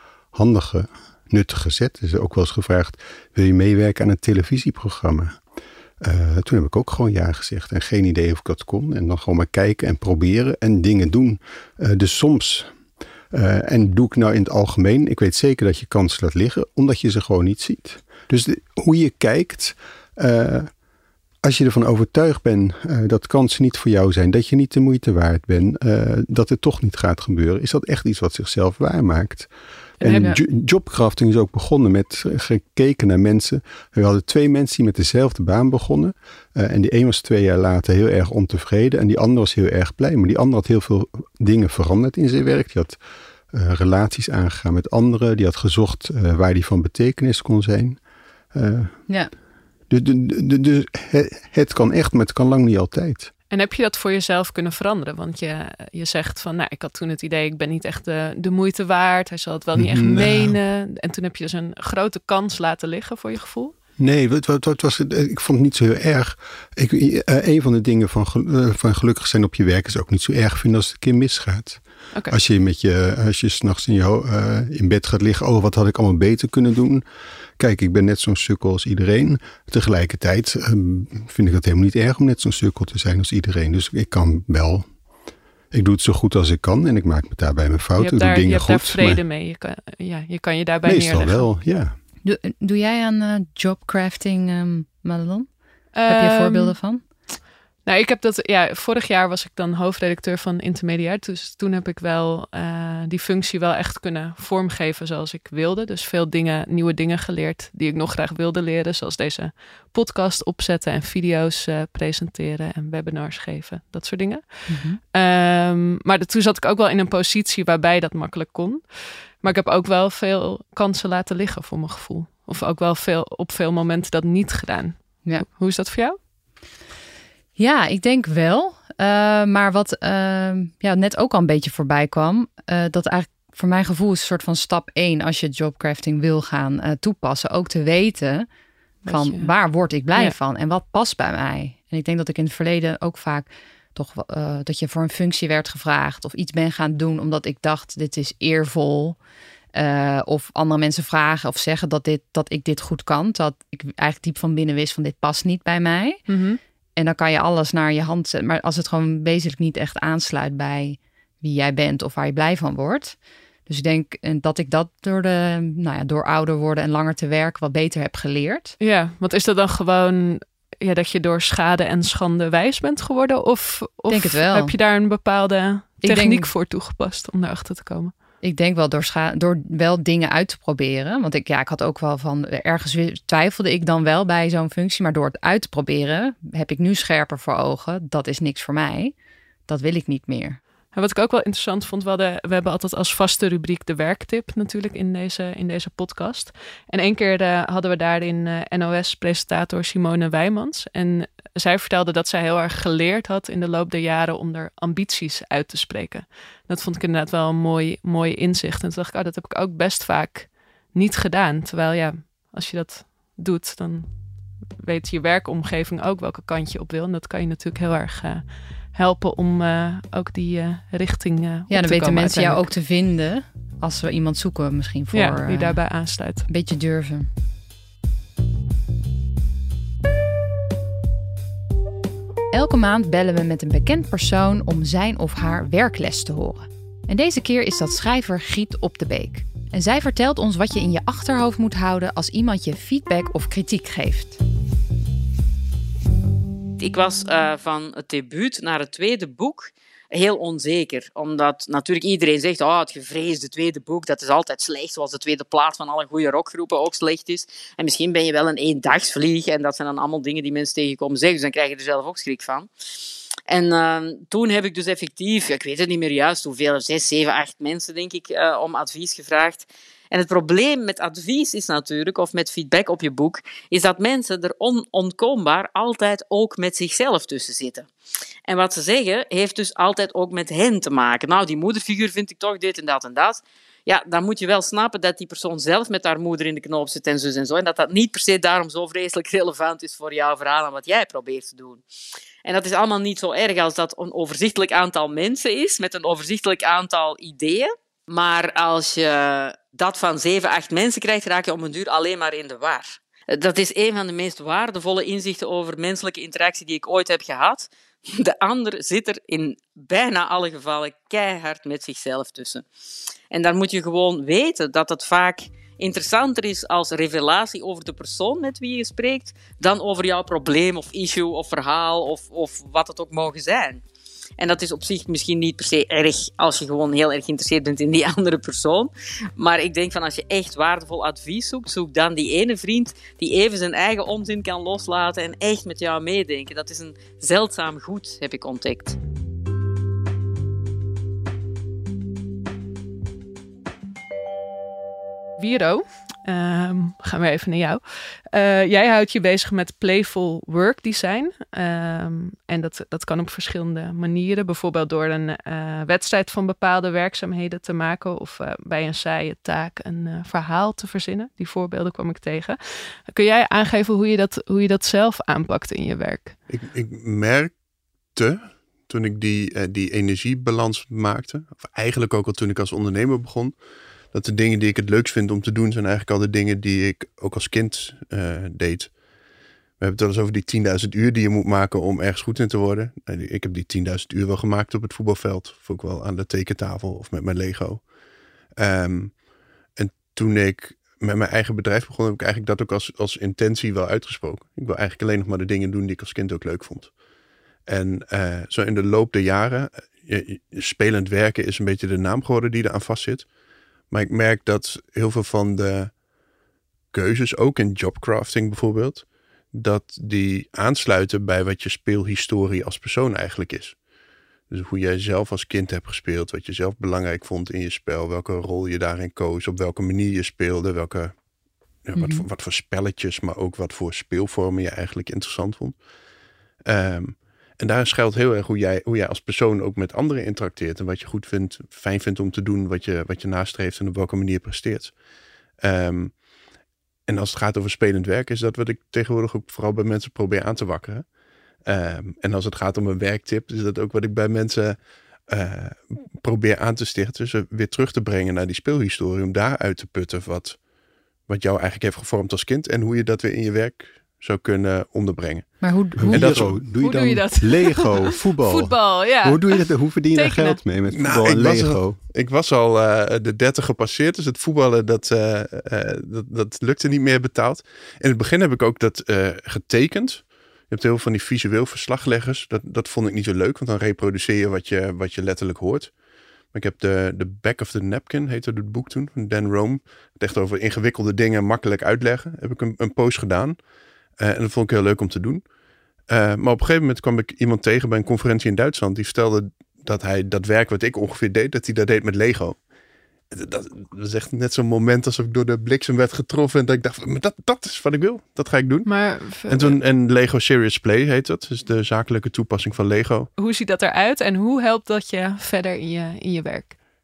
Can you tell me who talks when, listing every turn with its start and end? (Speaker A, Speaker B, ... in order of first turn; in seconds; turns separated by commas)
Speaker A: 0.3-5.4, Speaker A: 6.0-12.7, Speaker A: 13.3-20.7, Speaker A: 21.4-29.5, Speaker B: 30.0-30.4, Speaker A: 30.0-43.0, Speaker A: 43.5-48.0, Speaker A: 48.5-49.0, Speaker A: 49.9-53.3, Speaker B: 53.5-63.7, Speaker A: 59.7-60.6, Speaker A: 64.0-77.0, Speaker A: 77.6-84.9, Speaker A: 85.7-89.2, Speaker B: 88.0-91.5, Speaker A: 90.8-92.0, Speaker C: 92.2-97.0, Speaker B: 95.9-96.8, Speaker B: 97.8-126.2, Speaker C: 114.7-115.0, Speaker C: 127.6-138.5, Speaker B: 139.0-139.5, Speaker C: 139.1-149.2, Speaker C: 149.7-156.3, Speaker B: 156.3-156.6, Speaker C: 157.0-168.8, Speaker B: 168.8-178.1, Speaker C: 174.1-174.7, Speaker C: 176.0-176.5, Speaker C: 178.4-189.1, Speaker C: 189.7-190.6, Speaker B: 190.9-214.1, Speaker B: 214.8-222.7, Speaker C: 221.7-225.8, Speaker B: 225.1-226.4, Speaker C: 226.5-227.3, Speaker C: 232.5-244.4, Speaker D: 246.8-262.7, Speaker D: 263.5-277.9, Speaker D: 278.5-291.8, Speaker D: 292.4-312.6, Speaker D: 313.3-323.8, Speaker D: 324.4-339.0, Speaker B: 345.4-366.4, Speaker E: 366.5-367.5, Speaker E: 368.1-373.5, Speaker E: 374.1-378.9, Speaker E: 379.8-387.9, Speaker E: 388.6-389.2, Speaker E: 389.8-396.9, Speaker E: 397.7-403.3, Speaker E: 403.9-406.0, Speaker E: 406.9-413.8, Speaker E: 414.5-421.1, Speaker E: 421.8-425.8, Speaker C: 421.9-422.2, Speaker E: 426.6-434.9, Speaker E: 435.6-436.2, Speaker E: 437.1-441.0, Speaker E: 441.6-444.8, Speaker E: 445.3-450.6, Speaker E: 451.3-456.6, Speaker C: 455.6-456.4, Speaker A: 456.0-462.0, Speaker B: 456.8-460.6, Speaker E: 460.9-475.9, Speaker E: 476.5-483.6, Speaker E: 484.2-485.4, Speaker E: 486.1-492.6, Speaker E: 493.3-498.9, Speaker B: 498.8-499.8, Speaker E: 499.5-503.3, Speaker B: 503.4-506.8